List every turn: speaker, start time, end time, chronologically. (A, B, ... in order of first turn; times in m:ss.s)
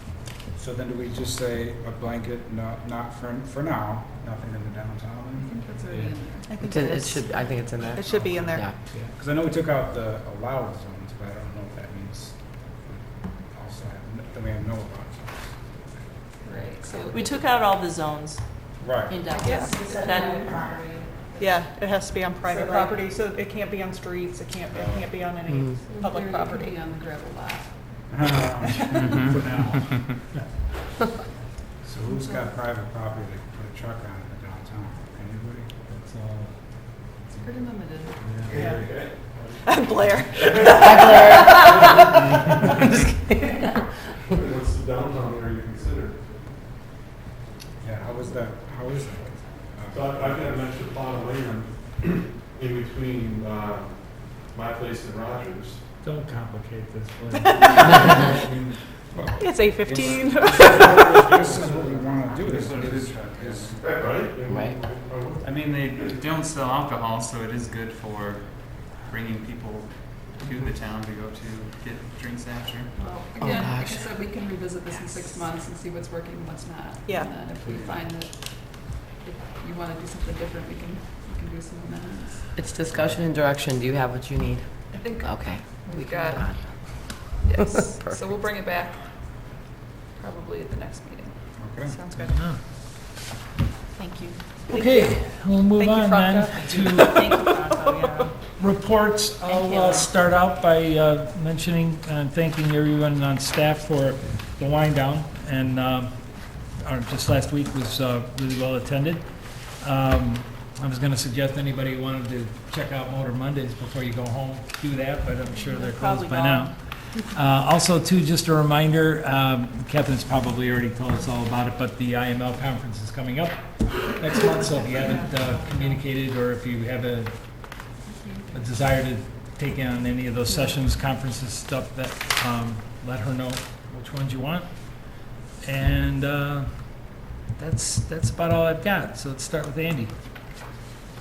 0:00.5-0:05.6 A
0:05.4-0:06.5 B
0:05.9-0:06.2 C
0:06.5-0:08.7 D
0:06.7-0:07.9 E
0:09.1-0:15.6 A
0:16.4-0:17.4 B
0:17.0-0:18.4 F
0:18.8-0:19.2 A
0:19.0-0:21.6 F
0:19.4-0:19.8 D
0:19.8-0:20.6 B
0:21.4-0:26.8 D
0:25.8-0:27.7 B
0:28.1-0:30.1 A
0:29.0-0:30.0 G
0:29.3-0:30.2 C
0:31.8-0:35.7 A
0:32.2-0:32.5 B
0:35.9-0:36.5 C
0:37.4-0:38.4 B
0:38.2-0:38.7 C
0:38.5-0:39.6 H
0:39.6-0:42.0 D
0:40.5-0:42.2 H
0:40.8-0:41.5 E
0:44.3-0:46.3 H
0:47.8-0:50.6 A
0:49.9-0:55.8 H
0:56.0-0:58.8 C
0:59.1-1:03.8 A
0:59.4-1:01.4 D
1:00.6-1:02.9 H
1:02.3-1:04.1 G
1:03.8-1:05.5 H
1:04.5-1:04.7 E
1:05.4-1:12.9 G
1:13.0-1:22.5 B
1:13.4-1:14.0 E
1:17.1-1:17.3 D
1:22.6-1:24.6 E
1:24.9-1:29.5 B
1:25.2-1:25.7 E
1:25.9-1:26.6 F
1:30.2-1:31.7 B
1:31.6-1:32.0 A
1:32.0-1:32.4 D
1:32.3-1:32.6 C
1:33.9-1:34.9 F
1:34.7-1:37.4 C
1:34.7-1:35.2 D
1:35.8-1:38.3 D
1:37.0-1:38.4 F
1:38.5-2:07.8 C
1:39.4-1:40.2 F
1:55.6-1:56.7 F
2:04.7-2:06.0 B
2:08.0-2:08.7 B
2:08.5-2:20.2 C
2:10.5-2:10.8 B